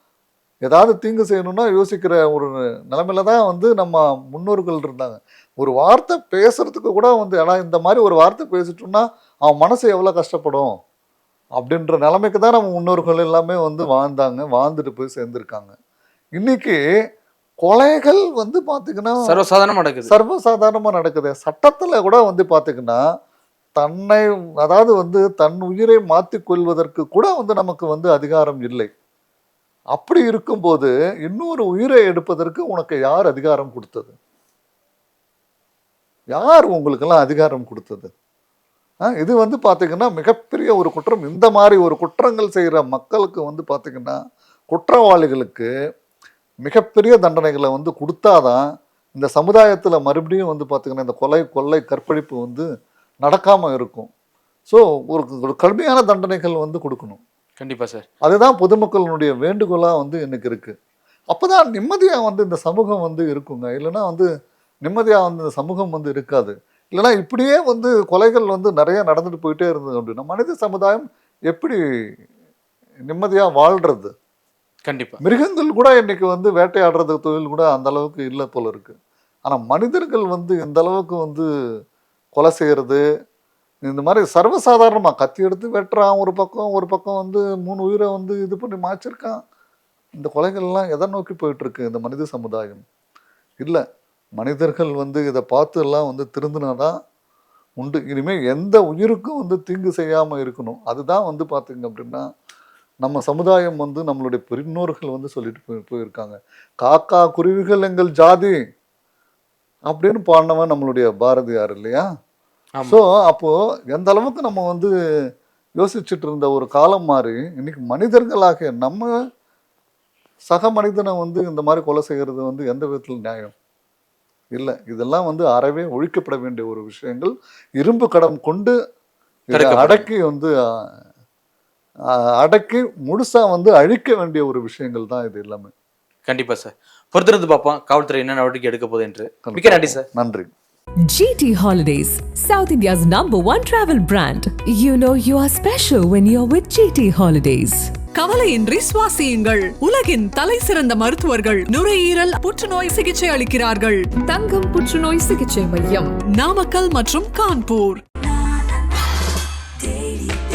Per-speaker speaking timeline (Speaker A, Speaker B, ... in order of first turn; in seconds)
Speaker A: 0.7-10.8, 11.6-15.7, 16.4-16.8, 17.6-19.4, 20.1-23.0, 23.8-28.9, 29.9-34.1, 36.3-38.1, 39.1-44.2, 44.7-45.7, 46.6-48.6, 49.1-52.7, 53.2-54.1, 54.7-57.2, 58.2-60.7, 61.3-64.3, 64.8-71.8, 73.1-74.1, 75.2-78.9, 79.5-81.5, 82.3-83.0, 83.8-89.4, 90.2-92.8, 94.4-97.0, 97.8-102.3, 103.0-108.6, 109.9-112.0, 112.9-114.9, 115.8-119.1, 120.5-123.5, 124.6-128.8, 129.5-130.5, 132.4-135.7, 139.4-140.5
Speaker B: 19.2-20.1, 57.6-58.0, 74.9-75.2, 129.5-130.1, 136.3-140.0
Speaker C: 141.1-147.9, 154.2-156.2
Speaker D: 148.2-154.1, 156.3-158.0